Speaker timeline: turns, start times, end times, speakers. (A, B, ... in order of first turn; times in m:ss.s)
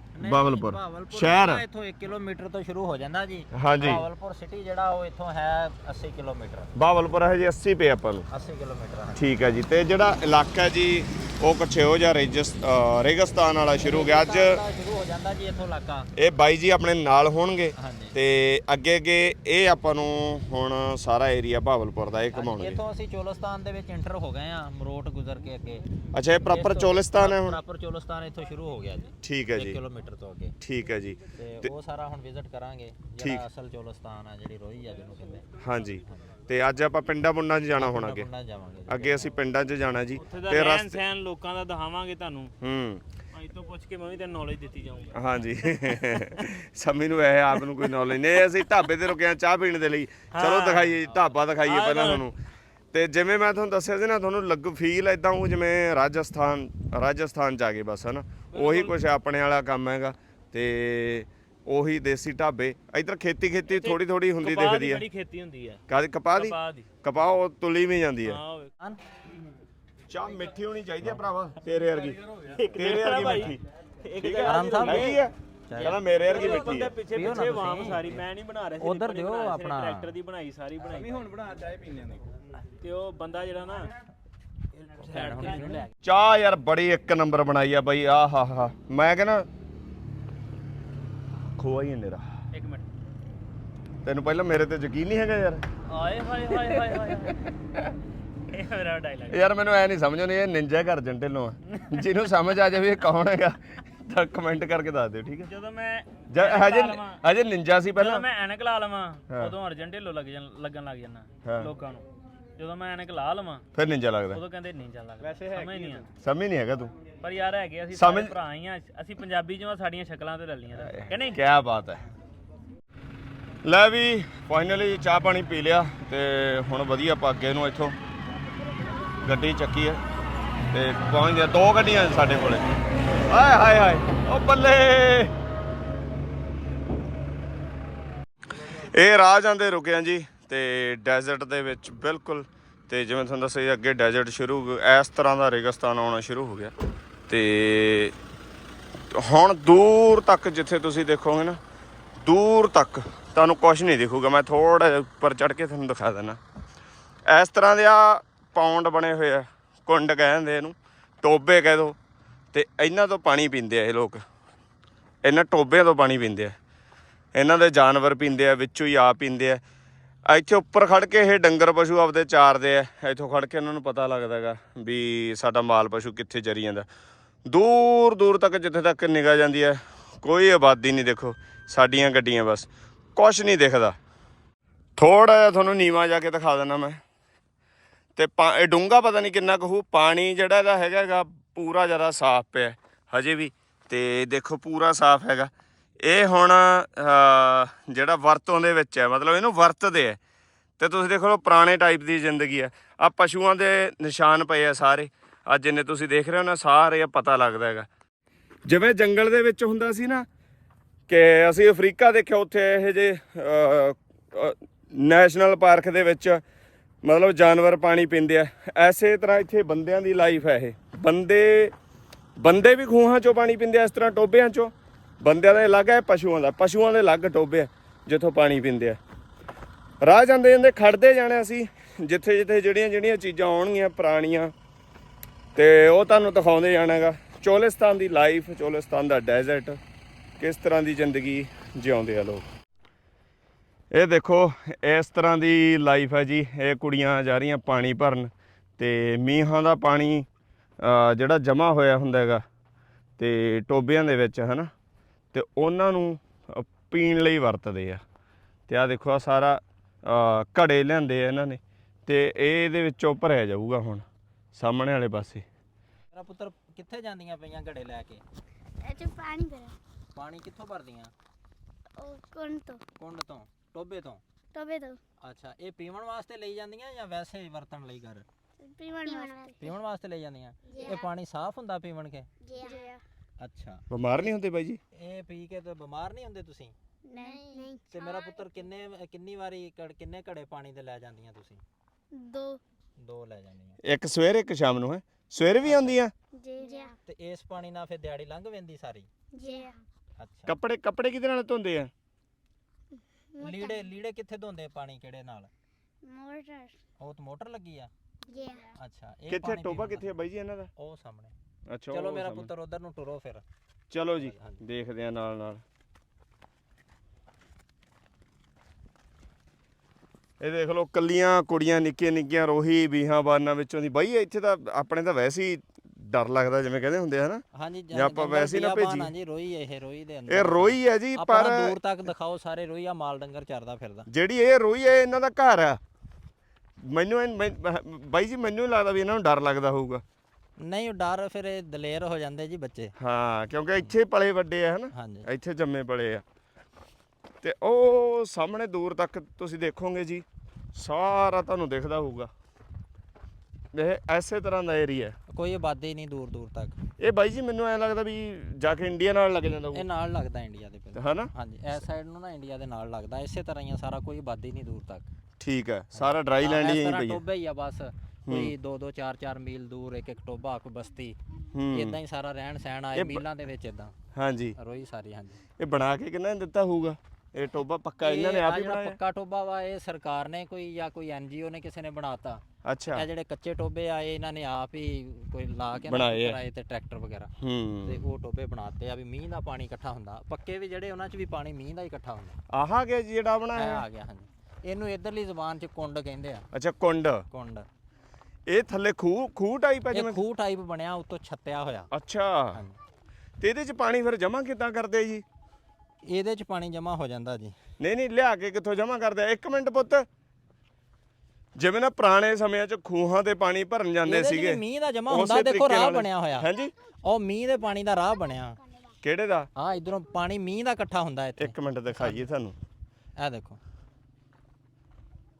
0:00.1-0:06.7 A
0:00.2-0:01.6 B
0:03.5-0:04.0 B
0:06.8-0:08.2 B
0:08.3-0:09.2 A
0:09.2-0:14.6 B
0:13.8-0:16.1 A
0:16.2-0:22.8 B
0:17.8-0:18.2 A
0:22.3-0:25.8 A
0:26.1-0:27.6 B
0:26.4-0:30.6 A
0:29.2-0:29.8 B
0:30.6-0:31.7 B
0:31.4-0:35.4 A
0:33.2-0:33.4 B
0:35.6-0:38.3 B
0:37.7-0:39.4 A
0:38.9-0:41.0 B
0:40.2-0:42.5 C
0:42.6-0:43.0 B
0:43.3-0:46.4 C
0:45.1-0:52.3 B
0:50.3-0:52.3 C
0:52.9-1:05.0 B
0:58.5-0:59.0 C
1:03.7-1:05.8 C
1:05.9-1:08.4 B
1:06.4-1:06.9 C
1:08.2-1:08.7 C
1:10.1-1:12.2 B
1:12.4-1:15.2 C
1:12.7-1:13.6 B
1:14.2-1:16.9 B
1:14.4-1:15.1 A
1:15.7-1:16.4 A
1:15.8-1:21.4 C
1:17.0-1:18.2 A
1:18.8-1:20.1 A
1:22.8-1:23.9 C
1:24.8-1:25.9 C
1:25.0-1:25.8 A
1:26.0-1:29.4 B
1:31.6-1:32.3 B
1:32.5-1:32.8 C
1:34.0-1:35.6 B
1:35.9-1:37.5 C
1:36.7-1:37.3 B
1:38.5-1:39.5 C
1:39.3-1:45.5 B
1:41.7-1:42.0 C
1:45.5-1:47.2 C
1:46.3-1:48.2 B
1:48.0-1:52.0 C
1:49.3-1:49.6 B
1:51.4-1:51.7 B
1:52.6-1:53.6 C
1:53.7-1:54.4 B
1:54.3-1:56.1 C
1:56.2-1:56.9 B
1:57.2-2:01.4 C
1:57.9-1:58.4 B
2:00.8-2:02.0 B
2:03.6-2:08.0 B
2:09.2-2:10.0 B
2:10.7-2:12.7 B
2:13.2-2:15.3 B
2:18.7-2:26.7 B
2:27.3-2:28.2 B
2:29.1-2:31.6 B
2:32.2-2:36.4 B
2:37.3-2:42.0 B
2:42.5-2:44.2 B
2:45.2-2:46.6 B
2:47.3-2:49.6 B
2:50.3-2:56.9 B
2:57.4-3:04.0 B
3:05.0-3:07.0 B
3:08.2-3:20.2 B
3:20.8-3:27.9 B
3:28.7-3:30.3 B
3:31.1-3:36.4 B
3:37.0-3:41.7 B
3:42.4-3:49.0 B
3:50.0-3:54.5 B
3:55.5-3:59.8 B
4:00.4-4:02.5 B
4:03.9-4:10.3 B
4:10.8-4:12.4 B
4:13.2-4:14.7 B
4:15.3-4:18.0 B
4:18.7-4:25.4 B
4:26.1-4:28.2 A
4:28.8-4:29.8 D
4:30.1-4:31.1 A
4:32.0-4:32.8 D
4:33.0-4:34.2 A
4:34.5-4:35.0 D
4:35.2-4:38.2 A
4:38.6-4:39.8 D
4:39.6-4:42.3 A
4:40.7-4:41.1 D
4:42.4-4:43.0 D
4:43.4-4:43.8 A
4:43.9-4:44.8 B
4:44.9-4:46.8 A
4:47.1-4:48.3 D
4:47.9-4:51.6 A
4:52.1-4:52.6 D
4:53.0-4:53.8 A
4:53.8-4:56.1 B
4:55.6-4:56.0 A
4:56.4-4:56.9 D
4:57.0-4:59.1 A
4:59.3-4:59.8 D
5:00.2-5:00.6 A
5:00.4-5:01.9 B
5:03.3-5:03.8 D
5:03.4-5:05.5 A
5:06.0-5:06.8 D
5:07.0-5:07.9 A
5:08.3-5:08.7 D
5:08.8-5:10.1 A
5:09.3-5:10.7 B
5:10.8-5:11.3 A
5:11.7-5:12.5 B
5:11.9-5:13.4 A
5:13.9-5:15.6 B
5:14.2-5:14.6 A
5:20.4-5:29.1 B
5:27.5-5:34.1 A
5:30.3-5:31.8 B
5:34.1-5:35.8 B
5:36.8-5:40.0 B
5:40.6-5:42.9 A
5:43.0-5:46.2 B
5:44.9-5:45.3 A
5:47.4-5:52.3 B
5:53.7-5:55.2 B
5:55.3-5:56.8 A
5:57.0-5:59.8 B
5:59.7-6:05.1 A
6:00.9-6:01.3 B
6:05.4-6:07.2 B
6:05.9-6:11.2 A
6:08.2-6:08.5 B
6:11.5-6:12.0 B
6:11.7-6:13.9 A
6:12.9-6:13.2 B
6:14.1-6:14.6 B
6:14.6-6:15.4 A
6:15.6-6:19.0 B
6:18.0-6:22.4 A
6:22.6-6:23.1 B
6:22.9-6:27.3 A
6:25.9-6:26.4 B
6:27.4-6:28.0 B
6:27.8-6:32.4 A
6:32.5-6:33.8 B
6:33.5-6:36.5 A
6:36.5-6:37.2 B
6:37.3-6:37.6 A
6:38.5-6:40.2 B
6:39.9-6:41.9 A
6:41.9-6:42.6 B
6:43.4-6:45.2 B
6:46.0-6:47.6 A
6:47.8-6:50.1 B
6:51.6-6:56.7 B
6:54.0-6:56.5 A
6:57.0-6:58.6 A
6:59.0-6:59.5 B
6:59.6-7:02.2 A
7:01.4-7:02.6 B
7:03.2-7:03.6 A